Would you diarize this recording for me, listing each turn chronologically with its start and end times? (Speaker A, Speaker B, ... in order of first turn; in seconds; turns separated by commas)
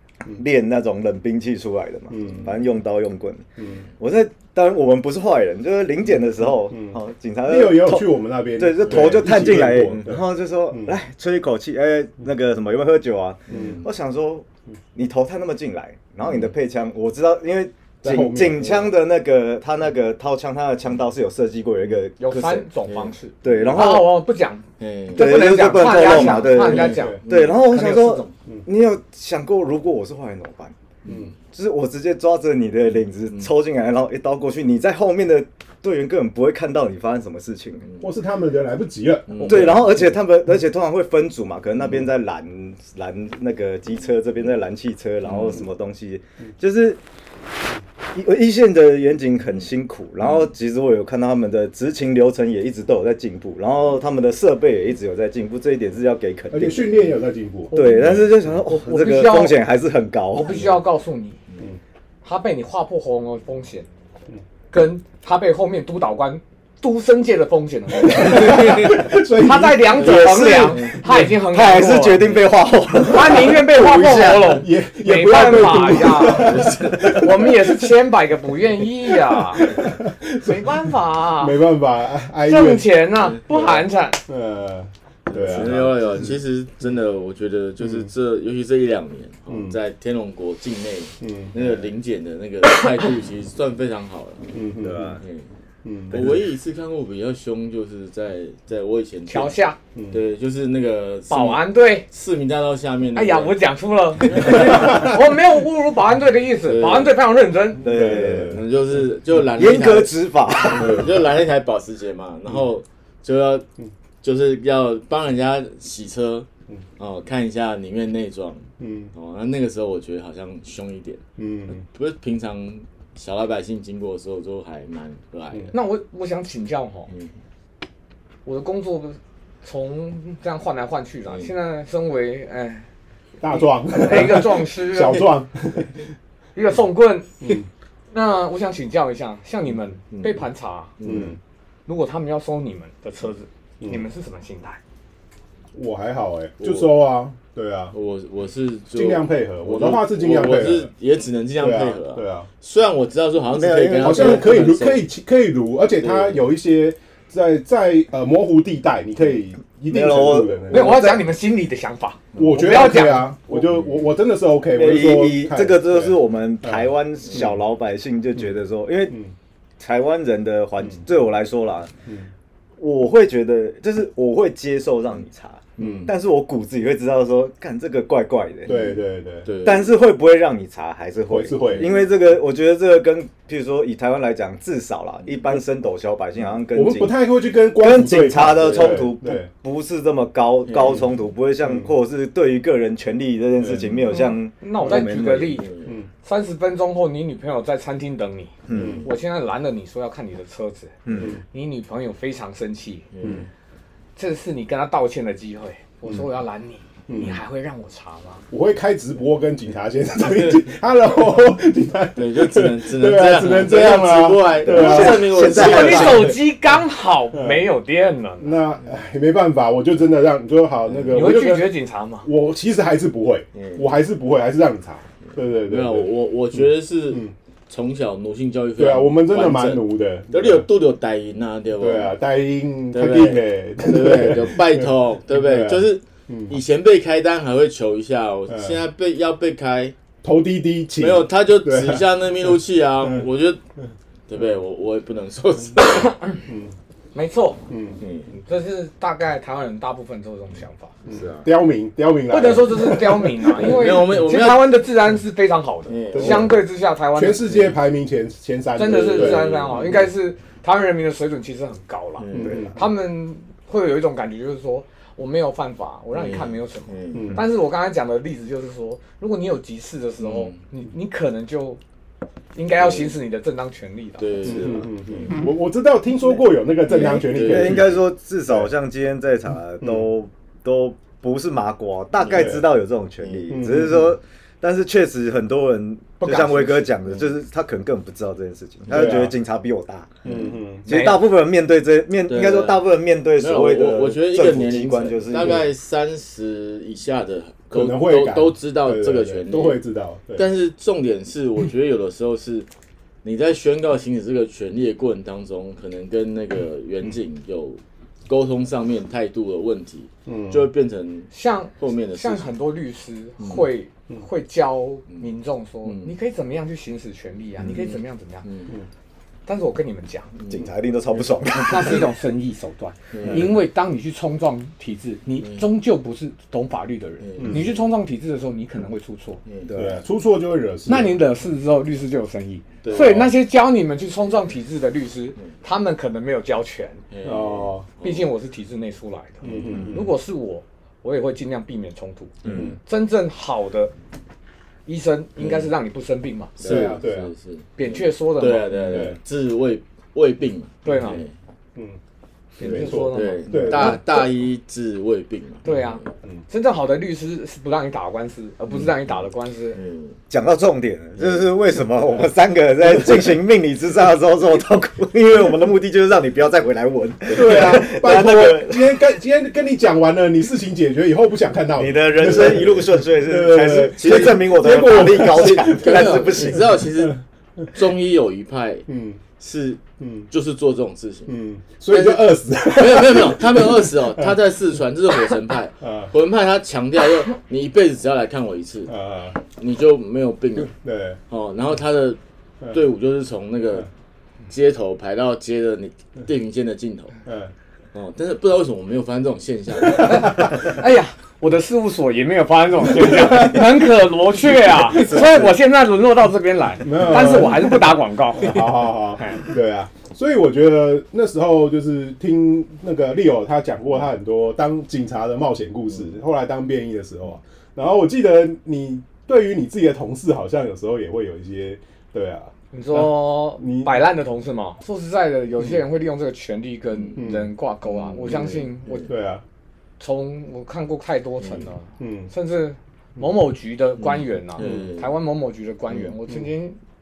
Speaker A: 0.3-3.4, Speaker B: 2.1-2.5, Speaker B: 3.6-3.9, Speaker A: 4.0-22.7, Speaker B: 7.5-10.9, Speaker C: 9.7-10.0, Speaker C: 13.5-13.8, Speaker B: 13.5-13.8, Speaker B: 18.0-18.9, Speaker D: 22.2-28.3, Speaker A: 23.4-24.2, Speaker C: 24.8-28.0, Speaker A: 25.1-30.7, Speaker B: 26.6-27.2, Speaker C: 31.0-31.3, Speaker B: 31.1-31.3, Speaker A: 31.5-37.9, Speaker B: 38.0-40.0, Speaker C: 39.3-39.9, Speaker A: 39.4-47.0, Speaker A: 48.1-57.0, Speaker B: 56.5-57.8, Speaker D: 57.7-59.6, Speaker A: 57.7-60.7, Speaker C: 58.0-58.3, Speaker D: 60.3-61.4, Speaker D: 62.2-63.9, Speaker D: 64.7-72.2, Speaker B: 68.0-70.0, Speaker C: 68.5-68.9, Speaker A: 70.0-74.6, Speaker C: 70.0-71.0, Speaker D: 73.0-79.7, Speaker B: 74.4-77.9, Speaker C: 76.2-77.2, Speaker B: 79.5-80.8, Speaker D: 80.4-81.6, Speaker B: 81.4-82.9, Speaker D: 82.4-84.2, Speaker B: 83.5-85.9, Speaker C: 85.3-94.5, Speaker A: 85.5-85.9, Speaker B: 87.8-88.1, Speaker B: 89.5-89.8, Speaker B: 91.2-91.8, Speaker B: 94.5-95.2, Speaker A: 94.8-95.2, Speaker C: 95.2-95.5, Speaker B: 95.8-96.3, Speaker C: 96.1-99.5, Speaker D: 99.3-99.8, Speaker B: 100.0-100.2, Speaker C: 100.1-103.5, Speaker D: 101.3-102.0, Speaker D: 103.1-107.8, Speaker C: 104.2-105.1, Speaker C: 106.7-107.1, Speaker A: 107.8-108.6, Speaker B: 107.8-108.6, Speaker C: 108.2-113.6, Speaker A: 109.5-111.1, Speaker C: 114.2-116.5, Speaker C: 117.0-121.2, Speaker B: 118.8-119.1, Speaker B: 121.4-121.8, Speaker C: 121.8-125.7, Speaker D: 125.7-127.1, Speaker D: 128.4-132.9, Speaker B: 133.4-136.0, Speaker D: 133.5-135.3, Speaker D: 136.5-137.3, Speaker D: 138.1-140.9, Speaker C: 140.1-140.4, Speaker C: 141.0-141.4, Speaker B: 141.0-141.4, Speaker D: 141.9-144.8, Speaker B: 145.7-147.9, Speaker C: 146.6-146.9, Speaker C: 147.9-155.1, Speaker B: 148.9-150.9, Speaker B: 151.6-152.5, Speaker A: 153.5-154.7, Speaker B: 154.0-161.2, Speaker C: 156.0-156.5, Speaker A: 159.9-160.9, Speaker D: 160.7-163.3, Speaker C: 162.3-162.6, Speaker B: 162.3-167.5, Speaker A: 164.7-169.2, Speaker A: 169.8-171.9, Speaker A: 172.8-178.9, Speaker C: 175.8-176.1, Speaker B: 175.8-176.1, Speaker B: 178.7-179.5, Speaker C: 179.4-179.9, Speaker A: 179.6-187.2, Speaker B: 181.3-182.0, Speaker C: 181.6-182.0, Speaker B: 186.7-189.5, Speaker A: 187.7-195.6, Speaker C: 188.5-189.1, Speaker C: 190.7-191.0, Speaker B: 191.6-191.9, Speaker B: 193.6-194.0, Speaker D: 194.1-195.7, Speaker C: 195.3-195.9, Speaker D: 196.2-200.9, Speaker A: 198.7-199.1, Speaker B: 198.7-199.1, Speaker A: 201.0-201.4, Speaker D: 201.5-203.1, Speaker C: 203.1-203.5, Speaker B: 203.2-203.5, Speaker D: 204.2-208.4, Speaker B: 207.1-207.4, Speaker B: 208.5-216.3, Speaker C: 212.2-216.3, Speaker A: 214.6-216.4, Speaker D: 215.4-218.6, Speaker B: 217.3-217.7, Speaker B: 218.4-226.1, Speaker C: 220.9-221.3, Speaker D: 221.1-222.3, Speaker C: 223.5-223.9, Speaker C: 225.6-232.1, Speaker B: 228.8-230.7, Speaker B: 231.8-236.6, Speaker C: 232.9-239.9, Speaker B: 238.5-238.8, Speaker B: 240.2-242.0, Speaker C: 241.0-243.6, Speaker C: 244.3-246.1, Speaker D: 246.1-246.4, Speaker B: 246.5-246.7, Speaker D: 247.1-247.6, Speaker B: 247.7-248.0, Speaker C: 248.0-248.3, Speaker D: 248.4-250.9, Speaker C: 251.1-251.5, Speaker B: 251.1-253.9, Speaker D: 252.3-257.5, Speaker C: 253.5-254.8, Speaker C: 255.9-256.6, Speaker B: 256.1-256.6, Speaker B: 257.1-259.8, Speaker C: 257.5-257.7, Speaker D: 258.8-271.8, Speaker C: 258.8-260.1, Speaker C: 262.2-262.8, Speaker B: 262.3-262.8, Speaker C: 266.1-267.4, Speaker B: 267.1-267.4, Speaker C: 270.2-270.6, Speaker D: 272.5-274.8, Speaker C: 272.8-273.1, Speaker C: 274.2-275.4, Speaker B: 274.4-278.7, Speaker C: 276.9-278.0, Speaker A: 276.9-290.3, Speaker B: 279.8-280.1, Speaker C: 282.2-282.6, Speaker B: 282.3-282.6, Speaker C: 283.2-283.5, Speaker B: 283.5-284.1, Speaker B: 288.9-289.3, Speaker C: 290.2-290.6, Speaker B: 290.2-290.9, Speaker A: 290.8-295.7, Speaker D: 290.9-291.2, Speaker C: 292.3-299.8, Speaker B: 297.7-300.4, Speaker C: 300.3-302.7, Speaker C: 303.2-312.5, Speaker B: 310.2-310.7, Speaker D: 311.3-318.5, Speaker C: 313.4-313.7, Speaker C: 315.8-316.1, Speaker C: 317.6-318.7, Speaker D: 319.4-320.3, Speaker C: 320.4-321.2, Speaker A: 320.5-322.1, Speaker D: 321.5-329.4, Speaker C: 323.1-323.5, Speaker C: 325.4-325.6, Speaker C: 327.2-327.8, Speaker B: 327.4-327.7, Speaker C: 329.4-329.8, Speaker A: 329.7-330.0, Speaker B: 329.7-331.2, Speaker D: 330.9-337.0, Speaker C: 332.8-333.3, Speaker C: 337.1-338.3, Speaker B: 337.2-337.9, Speaker D: 338.0-343.9, Speaker B: 339.4-340.1, Speaker C: 339.4-339.9, Speaker C: 342.4-342.8, Speaker B: 342.4-342.8, Speaker D: 344.9-346.9, Speaker C: 345.4-345.7, Speaker C: 346.6-351.3, Speaker B: 346.6-347.3, Speaker D: 347.8-349.1, Speaker B: 348.7-349.2, Speaker D: 350.8-351.2, Speaker D: 352.6-354.0, Speaker B: 352.6-354.1, Speaker C: 352.6-356.1, Speaker D: 355.6-359.8, Speaker C: 358.7-359.2, Speaker C: 359.7-360.2, Speaker A: 360.3-369.0, Speaker C: 361.2-361.4, Speaker B: 367.3-377.1, Speaker A: 371.8-376.7, Speaker C: 375.3-377.2, Speaker C: 377.7-378.9, Speaker B: 378.9-379.2, Speaker C: 379.4-381.3, Speaker B: 380.0-380.3, Speaker B: 381.3-384.3, Speaker C: 381.9-388.9, Speaker B: 385.8-386.1, Speaker B: 388.9-389.4, Speaker C: 389.6-390.7, Speaker B: 390.6-391.2, Speaker C: 391.3-392.2, Speaker C: 392.7-393.9, Speaker C: 394.5-397.2, Speaker B: 397.2-397.5, Speaker C: 397.9-400.5, Speaker D: 400.0-408.6, Speaker B: 402.9-403.8, Speaker B: 404.8-405.4, Speaker B: 406.8-423.9, Speaker D: 422.7-429.1, Speaker B: 427.1-427.5, Speaker C: 427.9-429.1, Speaker B: 429.1-429.4, Speaker D: 430.0-436.8, Speaker B: 432.0-432.3, Speaker C: 434.0-435.1, Speaker B: 434.6-434.9